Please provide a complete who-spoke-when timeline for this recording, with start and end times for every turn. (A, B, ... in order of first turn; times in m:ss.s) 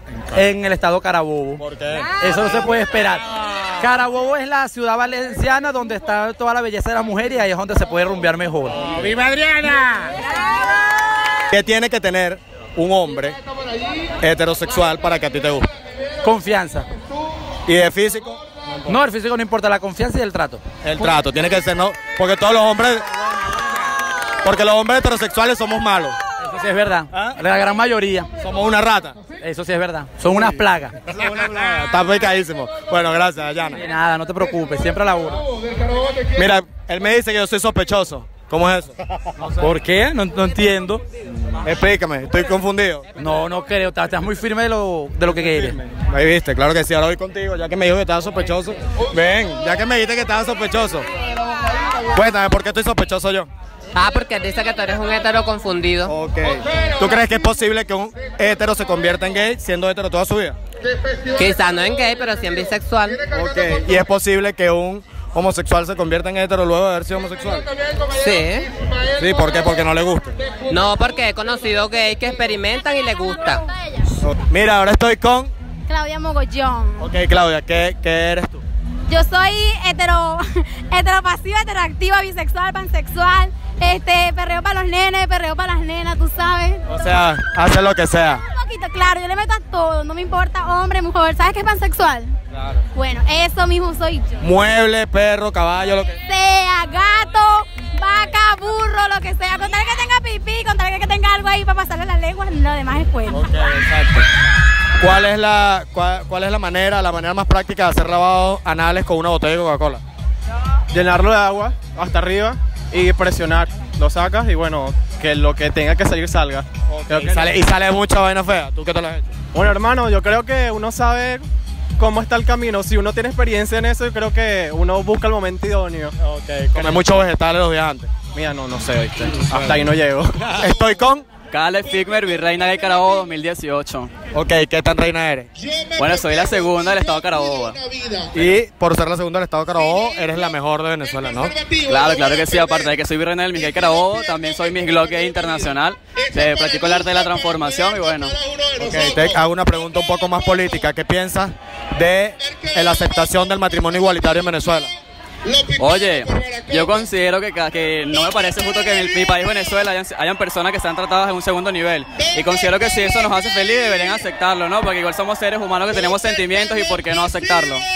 0:00.3-0:01.6 A
0:01.6-0:02.2 B
0:02.1-0:08.9 A
0:08.8-0:10.2 B
0:11.5-0:13.4 B
0:14.2-0:15.7 B
0:16.2-0:16.9 A
0:17.6-0:18.9 B
0:18.8-0:21.0 A
0:20.8-0:23.2 B
0:24.4-0:26.2 B
0:26.4-0:28.3 A
0:28.4-0:29.2 B
0:29.4-0:31.0 A
0:31.1-0:33.8 B
0:33.7-0:35.5 A
0:36.3-0:39.7 B
0:39.6-0:41.0 A
0:41.6-0:43.0 B
0:43.2-0:45.8 A
0:45.8-0:51.0 B
0:52.0-0:53.5 B
0:53.9-0:56.1 C
0:56.1-1:00.6 B
1:01.3-1:03.2 C
1:03.3-1:07.7 B
1:08.1-1:08.7 C
1:09.2-1:10.4 B
1:10.7-1:13.6 C
1:14.2-1:15.5 B
1:15.9-1:17.1 D
1:17.0-1:18.6 B
1:19.1-1:26.8 D
1:26.9-1:28.4 B
1:28.4-1:32.3 D
1:32.9-1:34.4 D
1:34.4-1:36.2 B
1:36.2-1:43.5 D
1:43.3-1:44.3 B
1:45.0-1:50.0 B
1:50.9-1:57.5 E
1:56.9-1:59.3 B
1:59.5-2:01.4 E
2:02.0-2:06.1 E
2:06.2-2:08.1 B
2:06.7-2:07.0 E
2:08.3-2:10.3 E
2:09.5-2:09.8 B
2:10.5-2:11.2 B
2:11.5-2:14.1 F
2:14.3-2:15.5 B
2:15.9-2:17.8 F
2:18.3-2:21.6 B
2:21.8-2:28.4 F
2:28.8-2:34.9 B
2:35.8-2:47.8 F